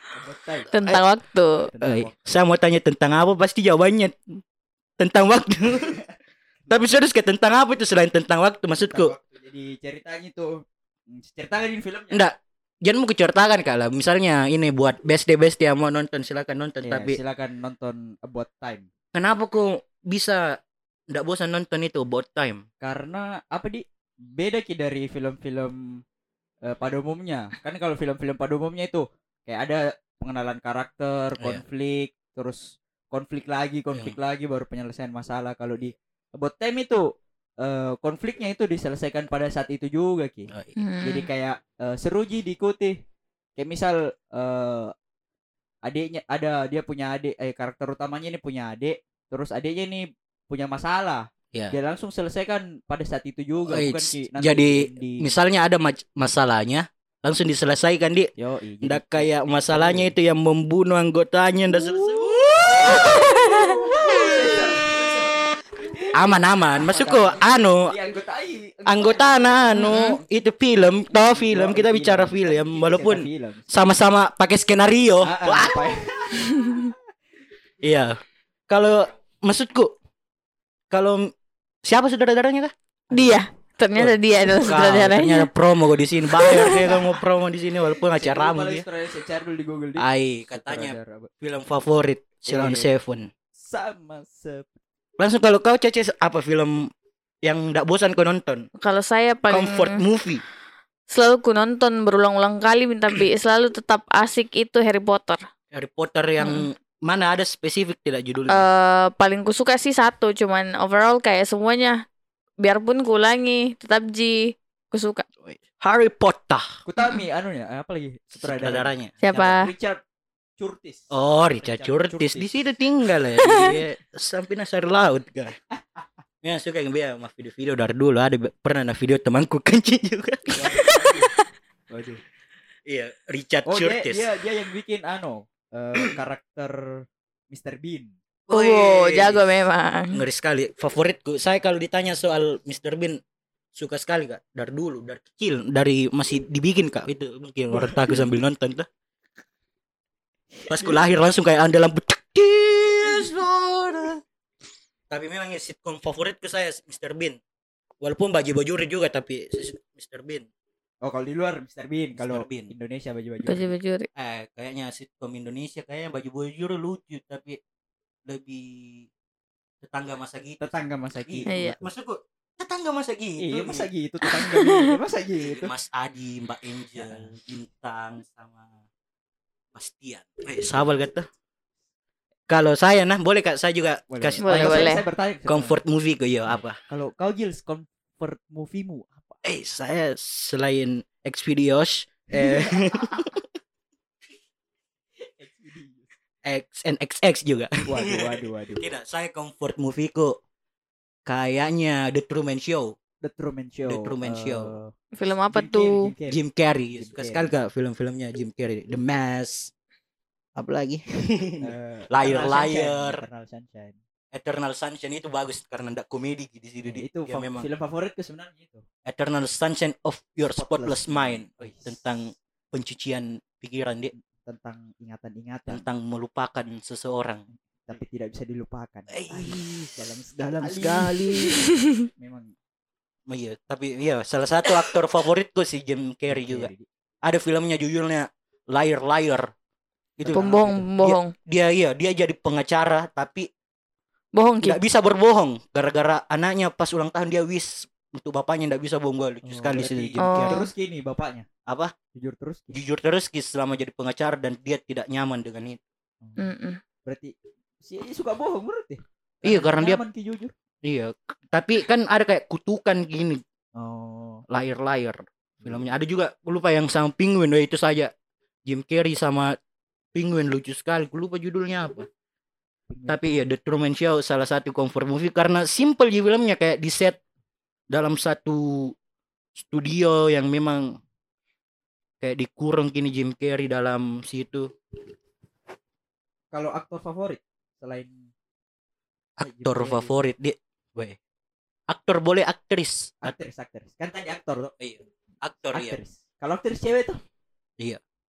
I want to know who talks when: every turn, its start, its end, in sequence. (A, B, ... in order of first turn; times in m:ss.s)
0:00.1-0:00.7 A
0:00.7-0:01.7 B
0:01.6-0:02.1 A
0:01.8-0:04.4 C
0:05.0-0:06.0 C
0:06.7-0:09.1 C
0:08.9-0:12.2 A
0:12.1-0:17.2 C
0:16.8-0:18.9 A
0:19.1-0:20.6 C
0:21.1-0:22.6 C
0:22.8-0:26.0 A
0:26.6-0:37.0 A
0:31.4-0:31.6 C
0:33.9-0:34.2 C
0:37.6-0:40.5 A
0:40.5-0:40.8 C
0:40.8-0:41.3 B
0:41.0-0:43.0 A
0:43.6-0:44.9 A
0:45.8-0:55.3 A
0:53.6-0:58.3 C
0:58.4-1:00.1 A
0:58.8-1:04.5 C
1:01.9-1:06.2 A
1:03.1-1:03.7 B
1:06.1-1:07.9 C
1:06.8-1:10.2 A
1:08.9-1:16.3 C
1:11.1-1:13.7 A
1:15.2-1:16.9 A
1:16.6-1:16.8 B
1:17.8-1:19.9 C
1:20.9-1:21.3 C
1:21.8-1:22.7 C
1:23.1-1:25.5 B
1:23.1-1:23.4 A
1:24.0-1:28.9 C
1:26.4-1:26.8 B
1:28.0-1:31.3 A
1:30.0-1:33.3 C
1:32.4-1:32.9 A
1:33.6-1:34.7 A
1:35.2-1:36.9 C
1:37.4-1:38.7 C
1:38.8-1:40.0 B
1:39.5-1:40.4 C
1:41.1-1:45.4 B
1:45.7-1:48.6 C
1:46.4-1:46.6 B
1:48.5-1:52.0 B
1:52.6-1:55.2 B
1:55.4-1:56.8 C
1:56.8-2:00.0 A
1:58.3-1:59.5 C
1:59.2-1:59.7 B
2:00.6-2:02.5 A
2:01.1-2:05.6 C
2:03.4-2:03.8 B
2:06.4-2:10.9 C
2:10.5-2:11.3 A
2:10.8-2:11.2 B
2:11.9-2:12.2 A
2:12.9-2:14.3 C
2:13.6-2:18.1 A
2:18.5-2:23.2 C
2:18.5-2:20.2 B
2:23.7-2:28.9 C
2:27.7-2:28.3 A
2:30.6-2:31.0 A
2:30.7-2:34.2 C
2:35.1-2:37.4 C
2:38.0-2:40.5 C
2:41.0-2:43.7 A
2:42.2-2:42.7 C
2:43.4-2:44.1 B
2:44.1-2:47.6 C
2:48.2-2:49.1 C
2:49.8-2:53.9 C
2:50.6-2:51.8 A
2:51.5-2:51.8 B
2:53.4-2:55.7 A
2:54.2-2:54.9 B
2:55.4-2:58.7 C
2:56.9-2:57.3 A
2:59.8-3:01.3 C
3:02.5-3:04.9 C
3:04.1-3:05.8 A
3:04.4-3:05.0 B
3:05.4-3:06.8 C
3:06.9-3:09.4 A
3:09.4-3:13.4 C
3:12.3-3:13.1 A
3:15.2-3:16.1 A
3:16.4-3:20.4 C
3:17.8-3:18.8 A
3:21.2-3:23.0 C
3:23.2-3:24.9 A
3:23.8-3:24.7 C
3:25.2-3:26.1 B
3:25.5-3:26.4 A
3:26.3-3:29.7 C
3:27.0-3:27.5 A
3:30.6-3:33.2 C
3:31.6-3:34.0 A
3:34.3-3:37.7 C
3:36.8-3:38.8 A
3:39.0-3:44.1 C
3:40.6-3:42.0 A
3:44.2-3:45.8 A
3:45.7-3:47.4 C
3:47.8-3:52.5 A
3:49.1-3:51.6 C
3:53.3-3:56.7 C
3:56.3-3:56.9 A
3:57.2-3:59.5 C
4:00.2-4:03.5 C
4:00.2-4:00.8 A
4:00.3-4:01.3 B
4:04.3-4:04.8 B
4:04.6-4:10.6 C
4:09.4-4:11.5 A
4:10.2-4:10.7 B
4:11.7-4:12.0 C
4:12.1-4:12.7 A
4:12.7-4:15.8 C
4:16.2-4:16.5 A
4:16.4-4:16.8 B
4:17.0-4:20.5 A
4:19.4-4:20.0 C
4:20.8-4:23.4 C
4:23.8-4:24.4 A
4:24.5-4:28.1 C
4:28.7-4:29.6 C
4:30.2-4:32.1 C
4:32.9-4:33.4 A
4:33.1-4:37.2 C
4:37.9-4:38.9 C
4:39.6-4:41.0 C
4:42.2-4:44.7 C
4:46.5-4:48.2 A
4:49.4-4:51.2 C
4:49.4-4:50.2 A
4:51.9-4:53.3 C
4:53.2-4:54.7 A
4:54.8-4:56.0 C
4:55.7-4:57.2 A